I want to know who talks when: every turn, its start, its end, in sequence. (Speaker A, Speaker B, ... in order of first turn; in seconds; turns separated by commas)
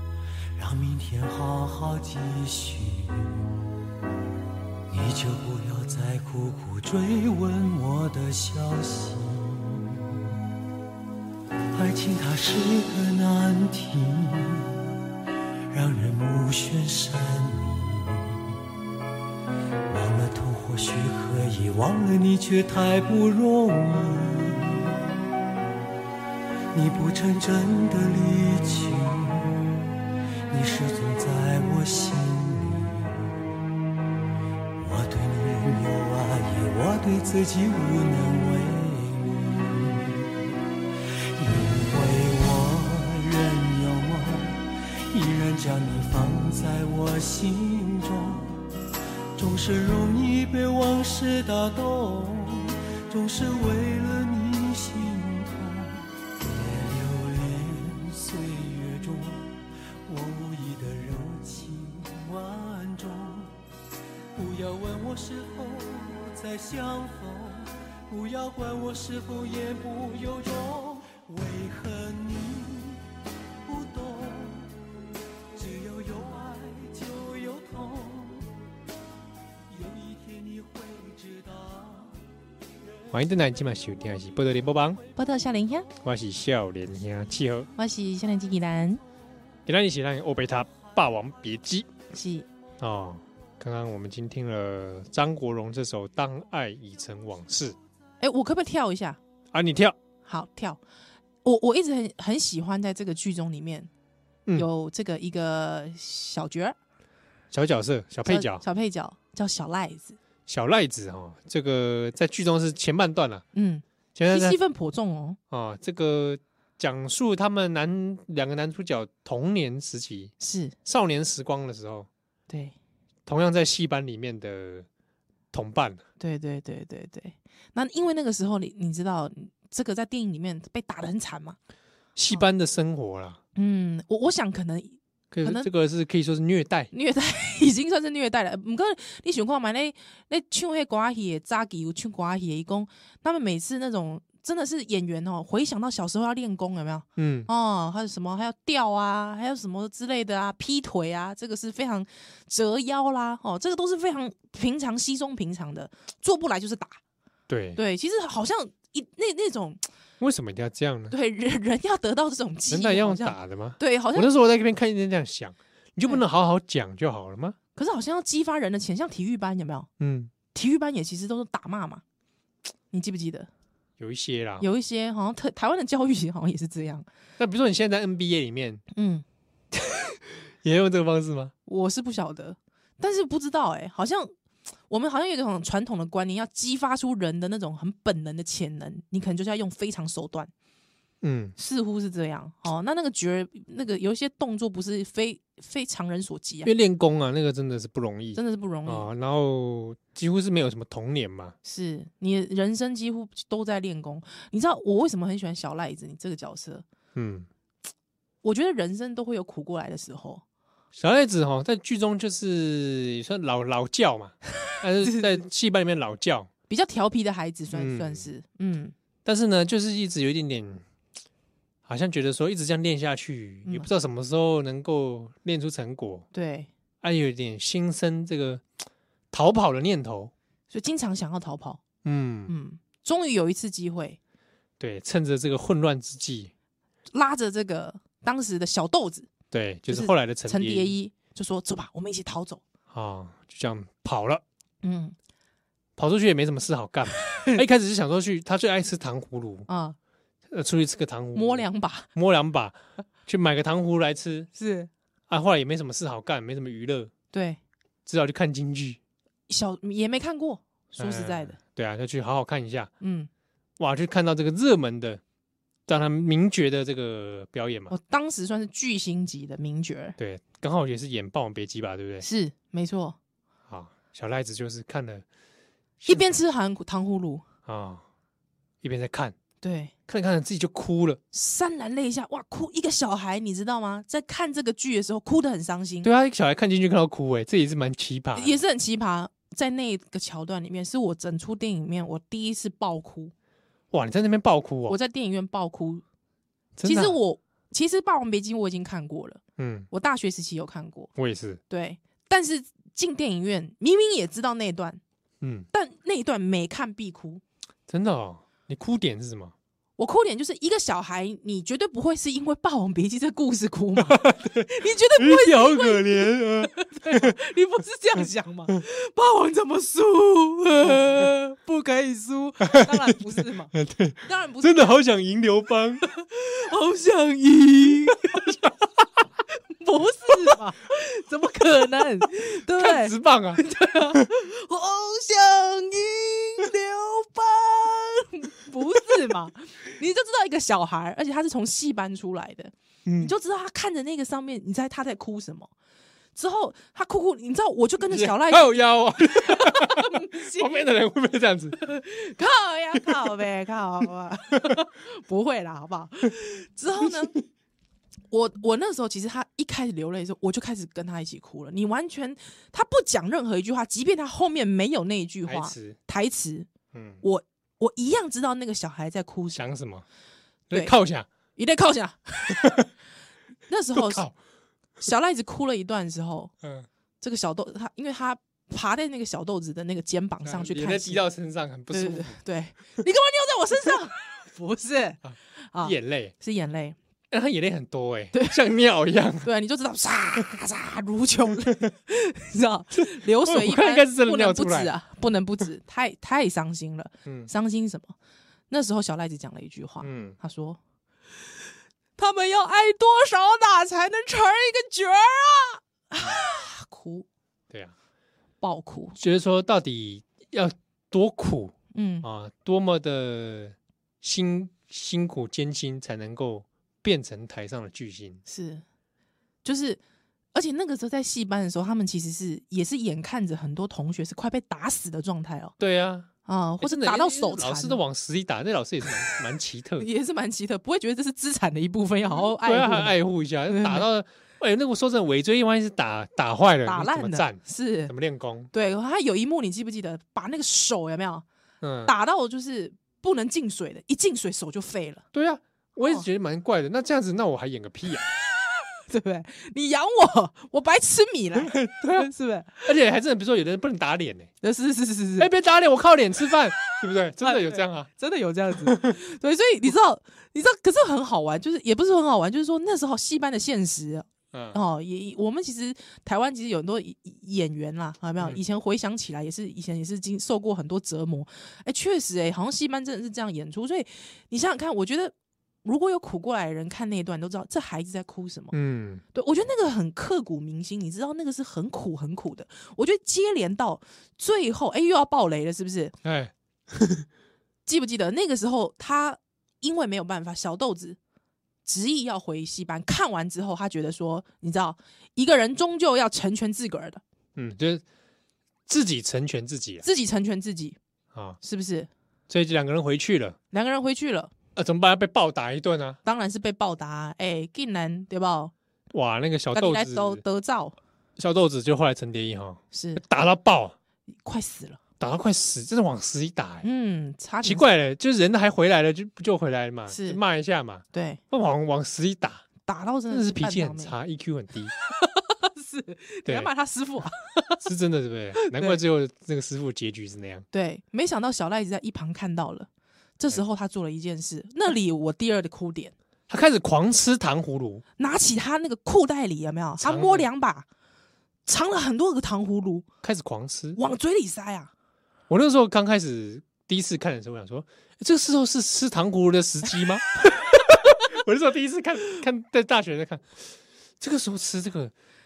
Speaker A: 0.6-3.5, Speaker A: 4.9-10.2, Speaker A: 11.7-14.8, Speaker A: 15.7-18.6, Speaker A: 19.9-25.0, Speaker A: 26.7-29.9, Speaker A: 30.5-33.4, Speaker A: 34.8-40.4, Speaker A: 41.4-48.6, Speaker A: 49.4-63.6, Speaker A: 64.3-73.0, Speaker A: 73.6-74.7, Speaker A: 75.5-78.5, Speaker A: 79.7-82.2, Speaker B: 83.1-85.0, Speaker C: 85.2-85.9, Speaker B: 86.0-87.7, Speaker C: 87.8-89.0, Speaker B: 89.7-91.9, Speaker C: 92.1-92.5, Speaker B: 92.8-97.8, Speaker C: 98.2-99.2, Speaker B: 99.5-100.0, Speaker C: 100.3-100.8, Speaker C: 101.4-103.9, Speaker C: 104.5-106.8, Speaker B: 107.5-108.6, Speaker C: 108.2-110.2, Speaker B: 110.5-113.5, Speaker C: 113.5-115.4, Speaker B: 114.2-114.6, Speaker B: 115.5-120.3, Speaker C: 120.4-120.8, Speaker B: 120.8-122.1, Speaker C: 122.5-122.8, Speaker B: 123.3-124.9, Speaker B: 125.5-126.0, Speaker C: 126.2-131.6, Speaker B: 132.2-133.4, Speaker C: 133.6-135.7, Speaker B: 135.3-136.9, Speaker C: 136.9-157.0, Speaker B: 147.2-147.5, Speaker B: 157.5-157.8, Speaker C: 157.8-159.8, Speaker B: 160.2-161.1, Speaker C: 161.1-164.3, Speaker B: 162.7-167.6, Speaker C: 167.8-169.9, Speaker B: 170.0-170.3, Speaker C: 170.5-172.0, Speaker C: 172.9-173.5, Speaker B: 174.0-174.7, Speaker C: 174.6-177.1, Speaker B: 177.4-178.8, Speaker C: 178.9-179.2, Speaker B: 180.6-181.5, Speaker C: 181.7-184.3, Speaker C: 184.9-190.5, Speaker B: 191.2-191.6, Speaker C: 191.6-196.7, Speaker B: 196.7-201.6, Speaker C: 198.3-199.1, Speaker C: 201.6-206.8, Speaker B: 207.2-207.5, Speaker C: 208.4-210.4, Speaker B: 210.9-216.5, Speaker C: 215.1-215.3, Speaker C: 216.7-218.9, Speaker B: 217.7-218.3, Speaker B: 219.2-220.8, Speaker B: 221.9-226.3, Speaker C: 226.3-226.7, Speaker B: 227.0-228.7, Speaker B: 229.3-230.3, Speaker C: 230.7-231.8, Speaker B: 232.0-232.5, Speaker C: 232.5-234.2, Speaker B: 234.8-236.5, Speaker C: 237.1-239.3, Speaker B: 239.5-240.9, Speaker C: 239.9-242.6, Speaker B: 242.9-244.4, Speaker C: 244.8-245.2, Speaker B: 246.0-249.7, Speaker C: 247.2-247.6, Speaker C: 249.7-250.0, Speaker B: 250.5-252.8, Speaker C: 251.3-252.1, Speaker B: 253.3-254.5, Speaker C: 254.6-254.9, Speaker B: 255.3-257.1, Speaker C: 257.3-257.6, Speaker B: 258.1-259.0, Speaker C: 259.5-261.6, Speaker B: 261.0-262.9, Speaker C: 263.0-263.3, Speaker B: 263.8-265.2, Speaker B: 265.9-267.9, Speaker C: 267.9-270.2, Speaker B: 270.2-272.3, Speaker C: 272.2-273.2, Speaker B: 273.7-275.2, Speaker B: 276.0-276.3, Speaker C: 276.1-277.4, Speaker B: 277.7-278.0, Speaker B: 278.8-279.4, Speaker C: 279.6-279.9, Speaker B: 280.1-281.2, Speaker C: 281.3-286.1, Speaker B: 286.0-288.6, Speaker C: 288.4-293.3, Speaker B: 293.9-295.0, Speaker C: 294.9-296.0, Speaker B: 296.8-297.2, Speaker C: 296.8-301.1, Speaker B: 299.6-299.9, Speaker B: 301.2-301.6, Speaker C: 301.7-305.0, Speaker B: 305.4-305.7, Speaker C: 305.7-307.4, Speaker B: 307.9-309.5, Speaker C: 310.0-324.9, Speaker B: 314.0-317.4, Speaker B: 322.7-323.1, Speaker B: 323.7-326.0, Speaker C: 326.0-328.6, Speaker B: 328.5-328.7, Speaker C: 329.8-345.7, Speaker B: 332.7-334.3, Speaker B: 343.1-343.3, Speaker C: 346.4-350.8, Speaker B: 348.1-351.8, Speaker C: 351.8-357.4, Speaker C: 358.3-366.7, Speaker B: 365.4-366.0, Speaker B: 366.9-367.2, Speaker C: 367.2-369.6, Speaker B: 369.5-370.1, Speaker B: 370.7-371.3, Speaker C: 371.6-372.9, Speaker C: 373.7-374.3, Speaker B: 373.9-374.4, Speaker C: 375.0-376.5, Speaker B: 376.6-376.9, Speaker C: 377.2-381.2, Speaker B: 380.4-382.4, Speaker C: 381.9-387.0, Speaker B: 385.2-386.3, Speaker B: 387.3-389.5, Speaker C: 388.3-388.6, Speaker C: 389.4-398.1, Speaker B: 393.0-394.9, Speaker B: 397.2-397.5, Speaker C: 398.7-400.8, Speaker B: 400.0-400.4, Speaker C: 402.2-407.3, Speaker C: 408.6-409.2, Speaker B: 409.2-418.4, Speaker C: 411.9-412.3, Speaker C: 418.5-418.8, Speaker C: 419.6-420.0, Speaker C: 420.5-425.8, Speaker B: 425.8-426.3, Speaker C: 426.4-428.0, Speaker B: 426.8-430.1, Speaker C: 430.0-433.2, Speaker B: 432.3-438.7, Speaker C: 433.7-434.1, Speaker C: 436.9-438.1, Speaker C: 438.7-441.4, Speaker B: 441.8-442.1, Speaker C: 442.1-445.2, Speaker B: 445.3-448.3, Speaker C: 449.1-452.9, Speaker B: 451.6-452.3, Speaker B: 452.8-454.5, Speaker C: 454.6-455.5, Speaker B: 455.4-458.1, Speaker C: 457.4-478.7, Speaker B: 458.8-459.1, Speaker B: 464.5-464.8, Speaker B: 478.7-479.2, Speaker C: 479.3-486.2, Speaker B: 486.2-487.3, Speaker C: 487.9-491.2, Speaker C: 491.9-497.2, Speaker B: 497.6-498.0, Speaker B: 498.9-500.1, Speaker C: 500.0-501.0, Speaker B: 501.3-501.6, Speaker C: 501.6-502.1, Speaker B: 502.5-503.6, Speaker C: 503.7-504.5, Speaker B: 504.8-506.2, Speaker C: 506.2-508.7, Speaker B: 509.1-510.4, Speaker C: 509.7-511.0, Speaker B: 511.4-514.0, Speaker C: 512.9-513.2, Speaker C: 514.4-515.0, Speaker B: 515.2-516.9, Speaker C: 516.8-517.9, Speaker B: 517.6-522.7, Speaker C: 520.1-520.4, Speaker C: 521.1-521.4, Speaker C: 522.9-524.1, Speaker B: 523.3-524.9, Speaker C: 525.1-527.9, Speaker B: 527.8-530.6, Speaker C: 528.6-529.0, Speaker C: 530.7-536.1, Speaker B: 536.5-538.0, Speaker C: 538.2-540.9, Speaker B: 540.0-540.5, Speaker C: 541.7-543.1, Speaker B: 543.2-544.0, Speaker C: 544.0-544.9, Speaker B: 545.5-555.1